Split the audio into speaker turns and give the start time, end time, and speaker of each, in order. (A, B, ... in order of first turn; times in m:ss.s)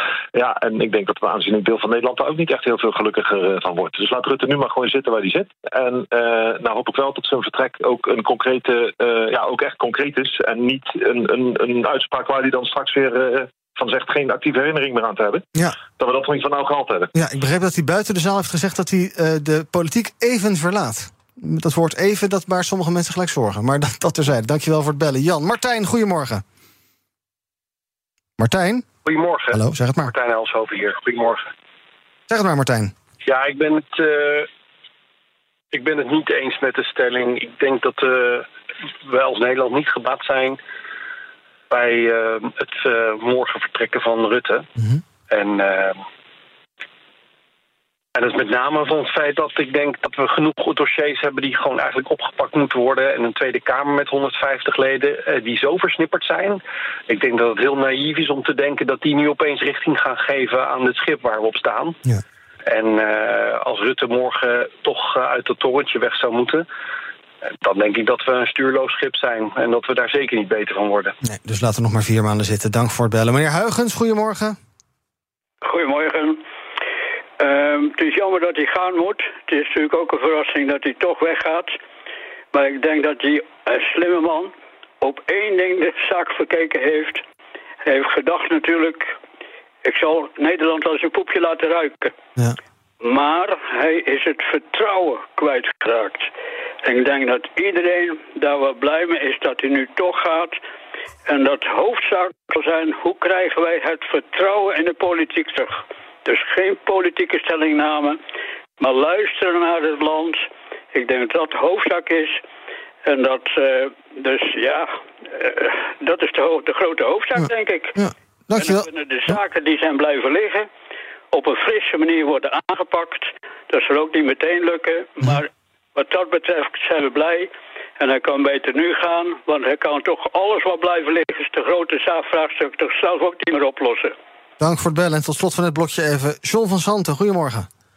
0:00.3-0:17.1 A
0:17.1-0:26.4 B
0:28.4-0:28.9 B
0:29.0-0:31.4 C
0:29.5-0:30.1 B
0:32.3-0:32.9 B
0:33.2-0:34.5 C
0:35.7-0:38.5 C
0:39.1-0:40.6 C
0:41.7-0:44.7 C
0:45.3-0:46.0 C
0:48.1-1:02.0 C
1:02.7-1:06.6 C
1:07.6-1:11.1 C
1:11.2-1:14.6 B
1:15.6-1:16.4 D
1:17.4-1:21.8 D
1:22.5-1:27.2 D
1:27.8-1:29.1 D
1:29.8-1:32.1 D
1:33.0-1:36.3 D
1:36.8-1:40.6 D
1:41.3-1:48.2 D
1:48.8-1:52.4 D
1:53.0-1:58.0 D
1:58.0-1:59.3 B
1:58.6-2:00.7 D
2:01.3-2:14.1 D
2:14.6-2:17.7 B